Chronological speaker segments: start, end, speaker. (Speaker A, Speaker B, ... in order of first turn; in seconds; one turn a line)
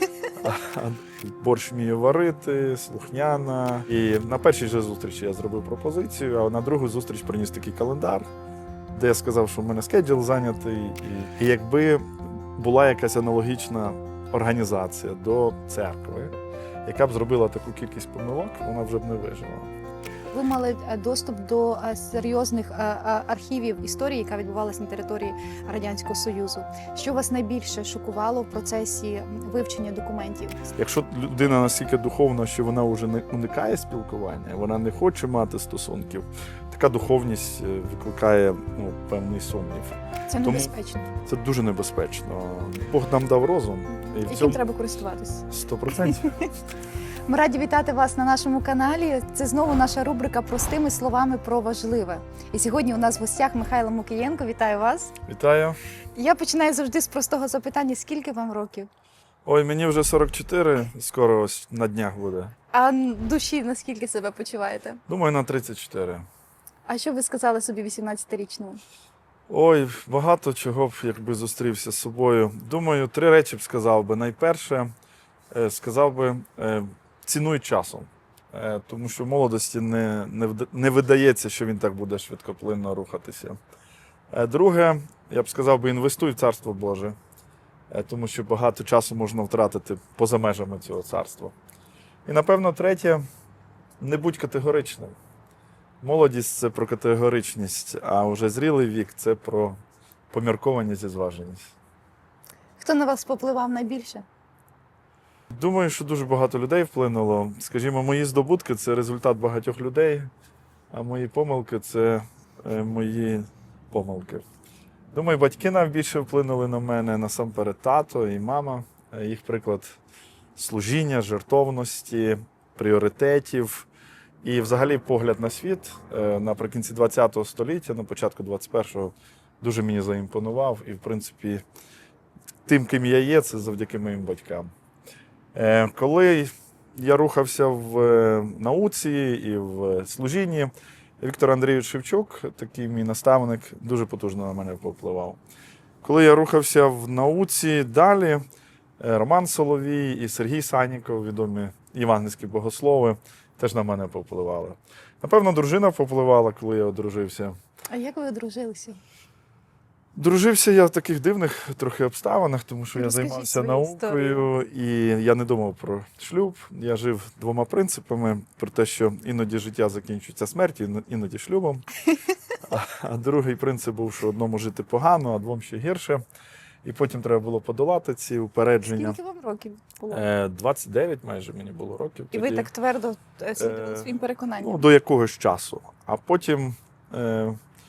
Speaker A: 0.3-8.3
Speaker A: 8.9-16.4
Speaker A: 16.9-19.7
Speaker B: 20.3-30.6
Speaker A: 30.8-40.7
Speaker B: 40.3-41.1
Speaker A: 41.2-44.6
Speaker B: 43.9-46.5
Speaker A: 45.5-46.3
Speaker B: 47.3-55.1
Speaker A: 55.3-55.8
Speaker B: 56.2-58.9
Speaker A: 59.5-62.5
Speaker B: 62.7-65.0
Speaker A: 65.1-66.3
Speaker B: 66.9-68.8
Speaker A: 69.5-74.9
Speaker A: 75.5-83.6
Speaker A: 84.3-87.2
Speaker A: 87.9-91.5
Speaker A: 92.3-93.2
Speaker A: 94.0-95.2
Speaker A: 96.0-99.8
Speaker A: 100.3-101.8
Speaker B: 102.8-104.3
Speaker A: 105.5-110.3
Speaker A: 110.9-114.5
Speaker A: 115.1-120.0
Speaker A: 120.6-123.9
Speaker A: 124.4-131.6
Speaker A: 132.7-134.7
Speaker A: 135.6-145.4
Speaker A: 146.0-148.4
Speaker A: 149.0-157.6
Speaker B: 157.9-159.0
Speaker A: 160.2-171.9
Speaker B: 162.9-164.4
Speaker A: 172.7-176.2
Speaker A: 176.8-179.2
Speaker B: 178.9-180.2
Speaker A: 180.1-182.7
Speaker B: 182.3-184.9
Speaker A: 183.6-187.6